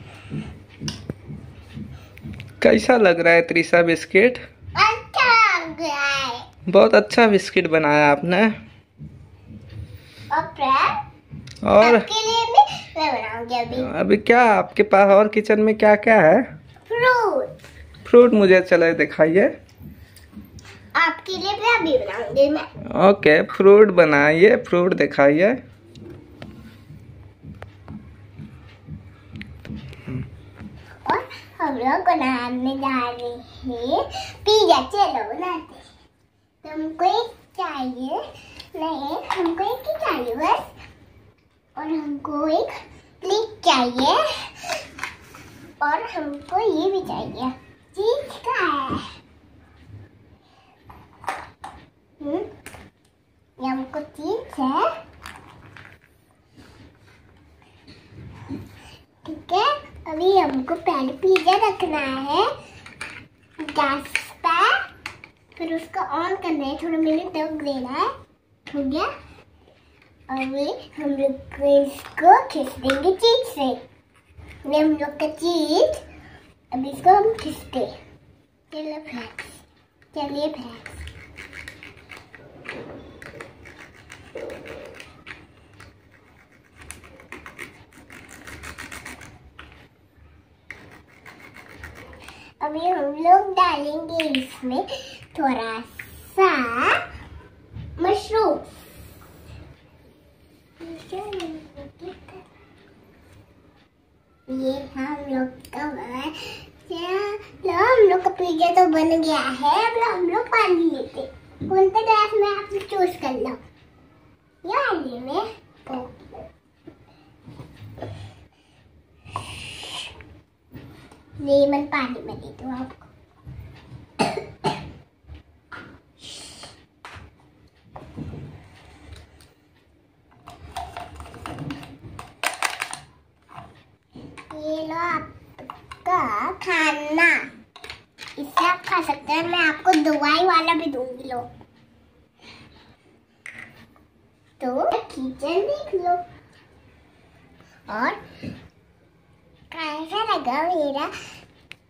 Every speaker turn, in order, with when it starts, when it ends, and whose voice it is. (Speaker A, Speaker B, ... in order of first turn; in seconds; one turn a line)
Speaker A: 2.6-4.4
Speaker B: 4.7-6.5
Speaker A: 6.7-8.6
Speaker B: 10.3-11.0
Speaker A: 11.6-12.1
Speaker B: 11.8-13.9
Speaker A: 13.8-16.4
Speaker B: 16.9-17.5
Speaker A: 18.0-19.5
Speaker B: 20.9-22.7
Speaker A: 22.9-25.6
Speaker B: 31.0-35.9
Speaker B: 36.6-38.2
Speaker B: 38.7-40.7
Speaker B: 41.8-42.7
Speaker B: 43.2-44.7
Speaker B: 45.8-49.1
Speaker B: 52.2-52.5
Speaker B: 53.6-54.9
Speaker B: 59.2-62.5
Speaker B: 63.6-64.8
Speaker B: 65.6-68.1
Speaker B: 68.7-69.1
Speaker B: 70.3-73.8
Speaker B: 74.6-76.0
Speaker B: 76.7-77.9
Speaker B: 78.7-81.0
Speaker B: 92.6-97.0
Speaker B: 98.0-98.8
Speaker B: 100.8-102.4
Speaker B: 104.5-113.6
Speaker B: 114.6-116.5
Speaker B: 121.4-123.1
Speaker B: 124.2-124.7
Speaker B: 134.5-137.5
Speaker B: 138.4-141.5
Speaker B: 144.6-146.2
Speaker B: 147.9-148.2
Speaker B: 149.7-151.1